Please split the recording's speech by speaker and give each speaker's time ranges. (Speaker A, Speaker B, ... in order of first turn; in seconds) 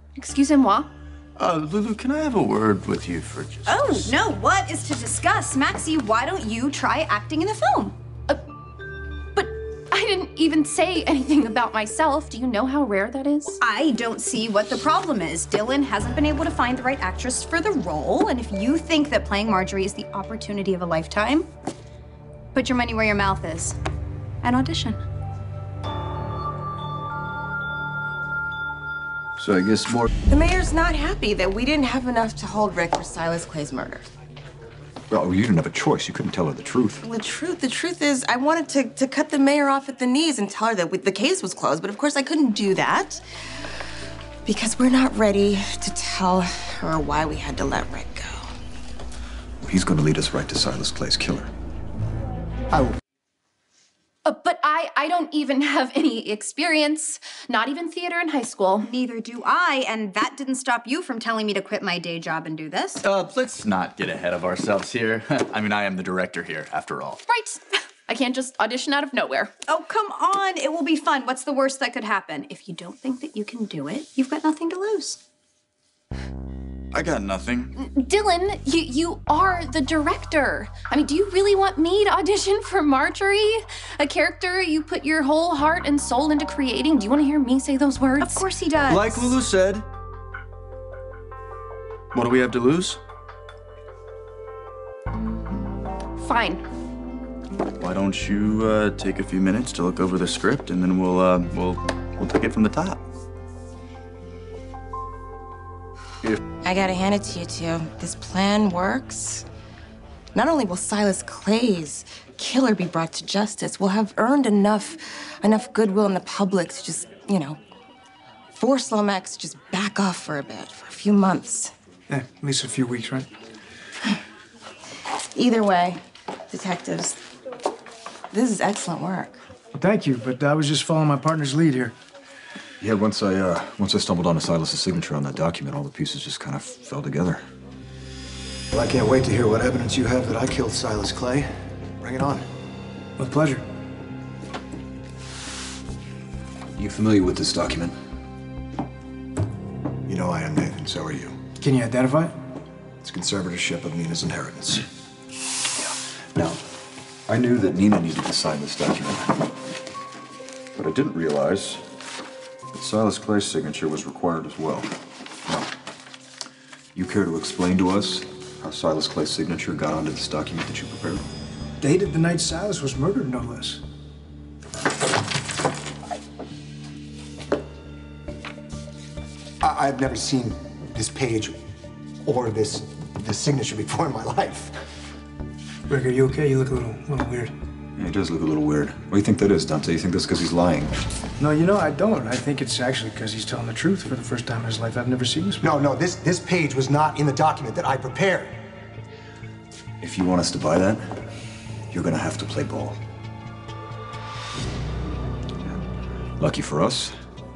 Speaker A: 0.1-0.9, 9.3-13.6, 54.2-58.9, 67.3-69.5, 77.8-88.5, 96.2-96.6
Speaker B: 1.4-4.1, 63.0-67.2, 76.9-77.7, 88.9-89.8, 92.1-93.0, 97.8-103.0, 160.8-161.8, 162.7-164.9
Speaker C: 3.6-7.9, 13.6-21.5, 22.5-23.8, 24.4-25.0, 58.8-63.0, 69.7-75.2, 88.2-89.4
Speaker D: 29.4-30.1, 35.1-37.0, 49.6-51.5, 132.8-137.4, 146.8-147.9, 156.3-156.6, 157.3-159.4, 166.9-171.2, 188.0-190.9, 200.0-201.0, 201.9-203.0, 206.4-207.1
Speaker E: 30.3-34.0, 37.0-43.2, 44.5-48.5, 106.6-109.5, 110.3-117.6, 118.6-121.7, 125.3-127.2, 128.3-129.4
Speaker F: 122.1-123.3, 129.7-131.9, 143.2-143.6, 151.6-152.3, 171.8-173.8, 185.9-187.5, 191.4-195.7
Speaker G: 138.7-142.5, 150.1-151.4, 153.0-154.8, 179.6-181.6, 182.2-184.8, 195.6-198.6